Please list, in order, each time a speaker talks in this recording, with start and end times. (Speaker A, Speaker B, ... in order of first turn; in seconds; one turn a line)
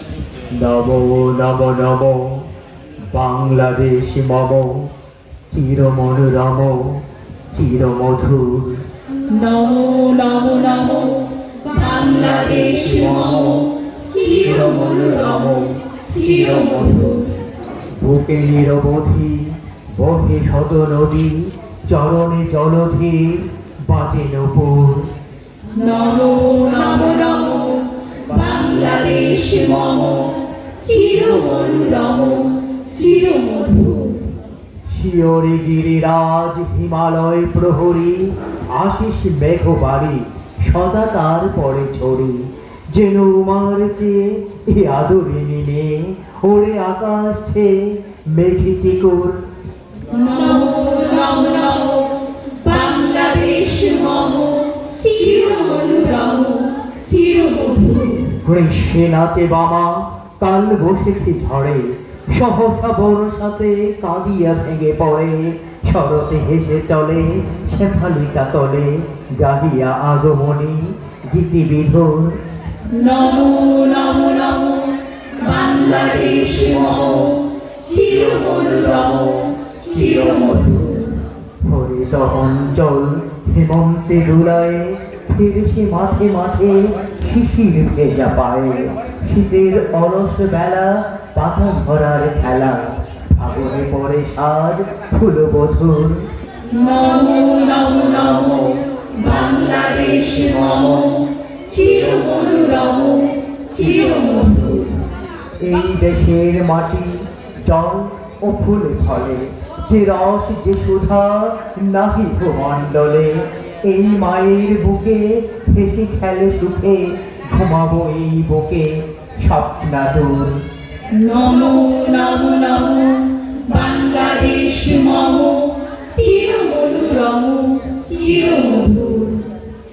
Speaker A: 0.5-2.5
Speaker A: 3.1-4.9
Speaker A: 5.5-8.8
Speaker B: 9.3-17.3
Speaker A: 12.6-13.6
Speaker A: 14.4-15.7
Speaker A: 16.3-17.2
Speaker A: 18.0-25.1
Speaker B: 25.7-34.2
Speaker A: 34.9-49.4
Speaker B: 50.1-58.3
Speaker A: 58.4-72.4
Speaker B: 72.9-81.1
Speaker A: 80.0-80.8
Speaker A: 81.6-96.3
Speaker B: 96.7-105.0
Speaker A: 105.6-120.6
Speaker B: 121.1-129.4